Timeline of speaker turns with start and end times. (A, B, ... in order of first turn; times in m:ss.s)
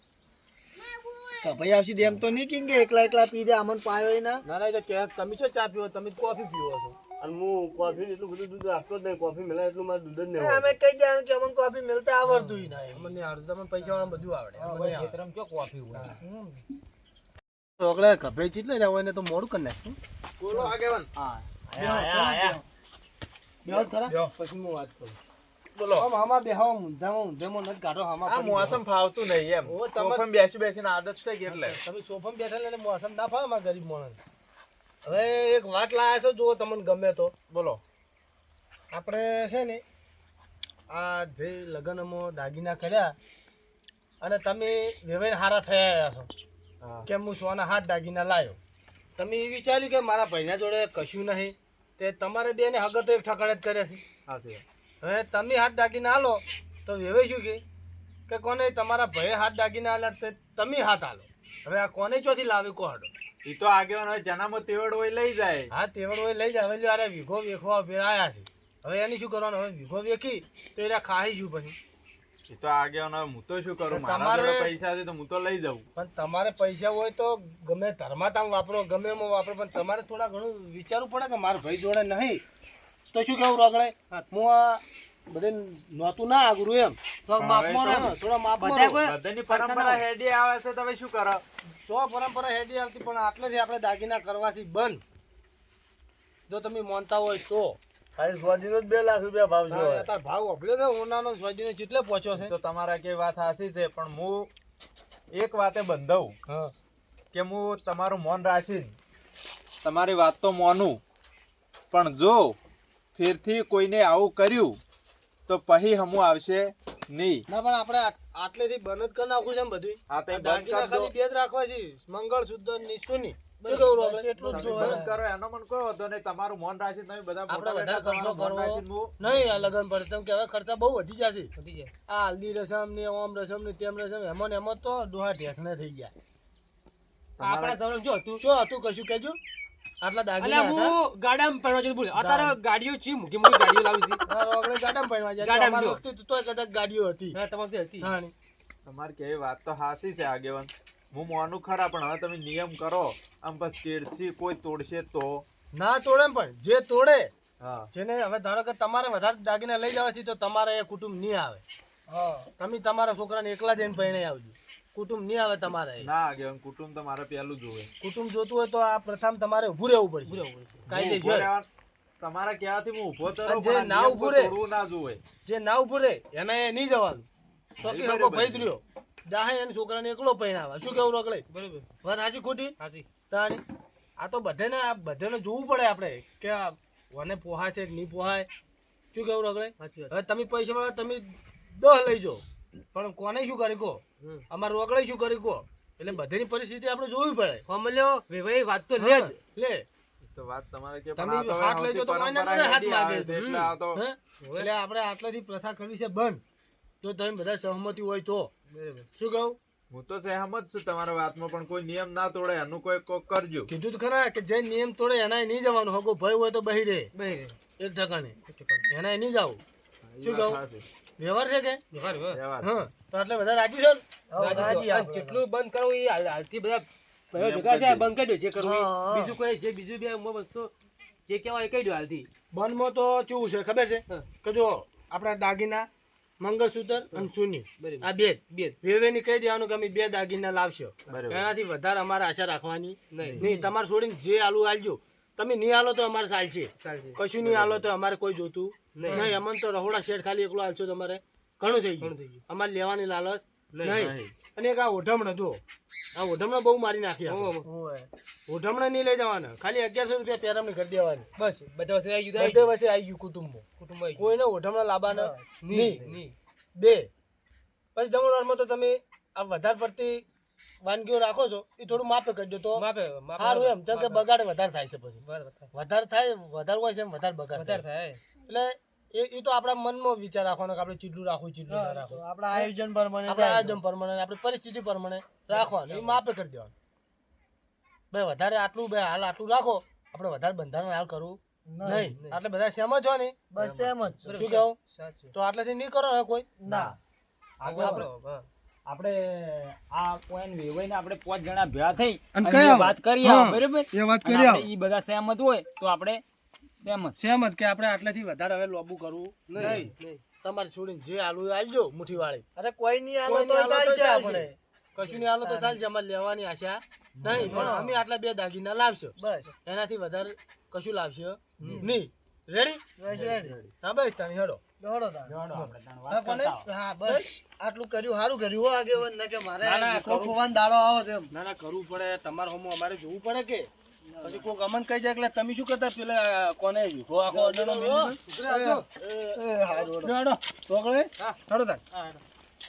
0:01.4-0:04.4 A
0:04.4-0:07.0 B
0:07.2-0:10.7 C
0:10.4-0:13.1 A
0:12.2-0:15.1 B
0:14.6-0:15.1 A
0:14.6-0:16.2 D
0:15.9-0:16.4 B
0:17.8-0:21.0 B
0:21.2-0:22.6 D
0:21.8-0:22.6 B
0:23.6-0:25.2 B
0:23.7-0:24.3 D
0:25.8-0:26.1 E
0:26.0-0:28.8 B
0:28.3-0:31.8 E
0:29.6-0:30.2 B
0:31.5-0:34.2 B
0:35.0-0:37.3 B
0:37.5-0:37.8 E
0:38.9-0:39.8 B
0:40.9-0:43.1 B
0:44.2-0:46.3 B
0:47.0-0:48.6 B
0:49.2-0:54.0 B
0:54.3-0:54.6 E
0:55.0-0:57.6 B
0:58.3-1:03.1 B
1:03.4-1:05.7 E
1:05.7-1:11.8 B
1:12.5-1:15.9 E
1:13.9-1:14.8 B
1:16.0-1:22.4 B
1:23.1-1:27.0 B
1:27.3-1:30.0 F
1:27.4-1:28.1 E
1:27.8-1:29.0 B
1:29.0-1:31.4 E
1:31.8-1:35.0 B
1:36.5-1:37.8 B
1:38.2-1:40.1 C
1:39.7-1:42.5 B
1:42.3-1:44.5 E
1:45.3-1:46.3 E
1:46.5-1:46.7 B
1:47.3-1:48.9 E
1:49.8-1:51.0 E
1:51.9-1:52.6 E
1:53.1-1:54.8 E
1:55.5-1:57.4 E
1:57.5-2:05.0 B
2:00.1-2:01.1 E
2:03.6-2:05.2 A
2:04.5-2:09.6 E
2:07.5-2:11.5 B
2:11.6-2:11.9 F
2:12.1-2:16.1 B
2:17.4-2:17.8 E
2:17.4-2:18.4 F
2:18.4-2:19.4 B
2:20.0-2:21.0 B
2:20.4-2:24.2 F
2:22.1-2:22.6 B
2:24.3-2:27.4 B
2:25.4-2:26.0 F
2:27.3-2:28.1 F
2:28.0-2:28.3 B
2:28.9-2:35.4 E
2:35.7-2:37.3 B
2:37.6-2:37.9 E
2:37.9-2:41.6 B
2:42.1-2:42.5 A
2:42.6-2:46.1 B
2:46.0-2:47.9 E
2:48.0-2:51.5 B
2:50.3-2:50.8 F
2:50.9-2:51.6 E
2:52.2-2:55.2 E
2:53.4-2:54.6 B
2:55.4-2:57.2 B
2:57.8-2:58.7 E
2:57.8-3:01.4 B
3:01.5-3:01.9 F
3:02.0-3:02.7 B
3:02.8-3:03.1 F
3:03.3-3:03.6 B
3:04.2-3:08.5 B
3:09.1-3:12.4 B
3:09.8-3:10.1 F
3:12.9-3:17.6 B
3:17.7-3:19.3 F
3:19.0-3:19.8 B
3:20.2-3:24.0 E
3:21.2-3:26.4 B
3:23.4-3:23.7 F
3:24.4-3:24.7 F
3:27.0-3:28.5 B
3:28.7-3:29.1 F
3:29.2-3:29.6 B
3:29.9-3:33.7 E
3:33.7-3:37.1 B
3:37.1-3:37.6 F
3:37.8-3:38.4 B
3:38.4-3:38.8 F
3:38.9-3:39.6 B
3:40.1-3:40.8 E
3:40.2-3:40.6 B
3:41.2-3:41.8 B
3:41.9-3:42.4 F
3:42.3-3:42.8 E
3:42.6-3:44.8 B
3:44.3-3:45.4 A
3:44.4-3:50.7 F
3:47.3-3:48.1 E
3:48.6-3:49.4 A
3:51.3-3:52.3 F
3:52.5-3:55.9 B
3:56.4-4:15.6 B
3:57.1-3:58.8 F
4:01.1-4:01.5 E
4:03.1-4:03.7 F
4:06.8-4:07.2 F
4:07.4-4:07.8 E
4:08.9-4:09.3 F
4:12.0-4:12.4 F
4:13.7-4:14.1 F
4:16.1-4:17.6 B
4:17.3-4:17.7 F
4:17.6-4:18.1 A
4:18.5-4:21.3 B
4:21.4-4:22.7 F
4:22.4-4:23.6 B
4:23.8-4:24.3 F
4:24.2-4:26.1 B
4:25.1-4:25.4 A
4:25.6-4:26.3 F
4:26.8-4:27.1 B
4:27.9-4:30.2 B
4:30.8-4:32.8 B
4:32.7-4:34.2 F
4:33.4-4:35.2 B
4:35.2-4:35.7 F
4:35.7-4:37.8 B
4:37.5-4:38.2 F
4:38.5-4:42.7 B
4:41.7-4:43.8 A
4:43.3-4:46.7 B
4:45.5-4:46.2 F
4:48.1-4:54.8 B
4:51.7-4:52.1 A
4:51.9-4:52.4 F
4:53.5-4:54.5 A
4:54.2-4:55.3 F
4:55.3-4:56.9 B
4:56.6-4:57.0 A
4:57.6-4:58.0 D
4:57.6-4:58.4 F
4:57.7-4:58.1 B
4:58.9-5:06.2 D
5:02.3-5:04.7 B
5:06.8-5:07.2 D
5:07.2-5:09.9 B
5:09.5-5:10.2 F
5:10.4-5:12.4 B
5:12.6-5:14.5 A
5:13.2-5:22.8 B
5:15.4-5:15.7 A
5:17.2-5:18.0 A
5:17.4-5:17.8 F
5:19.2-5:19.5 A
5:21.7-5:22.0 A
5:23.0-5:23.6 A
5:23.2-5:23.5 E
5:23.8-5:24.6 B
5:24.8-5:25.4 A
5:25.3-5:26.7 D
5:25.5-5:27.2 B
5:26.6-5:31.3 A
5:29.6-5:30.4 B
5:31.3-5:33.7 B
5:34.0-5:34.5 A
5:34.2-5:38.2 B
5:37.3-5:38.1 C
5:38.2-5:38.8 F
5:38.4-5:38.8 A
5:39.0-5:39.3 C
5:39.3-5:40.1 A
5:39.9-5:41.8 B
5:41.9-5:42.2 F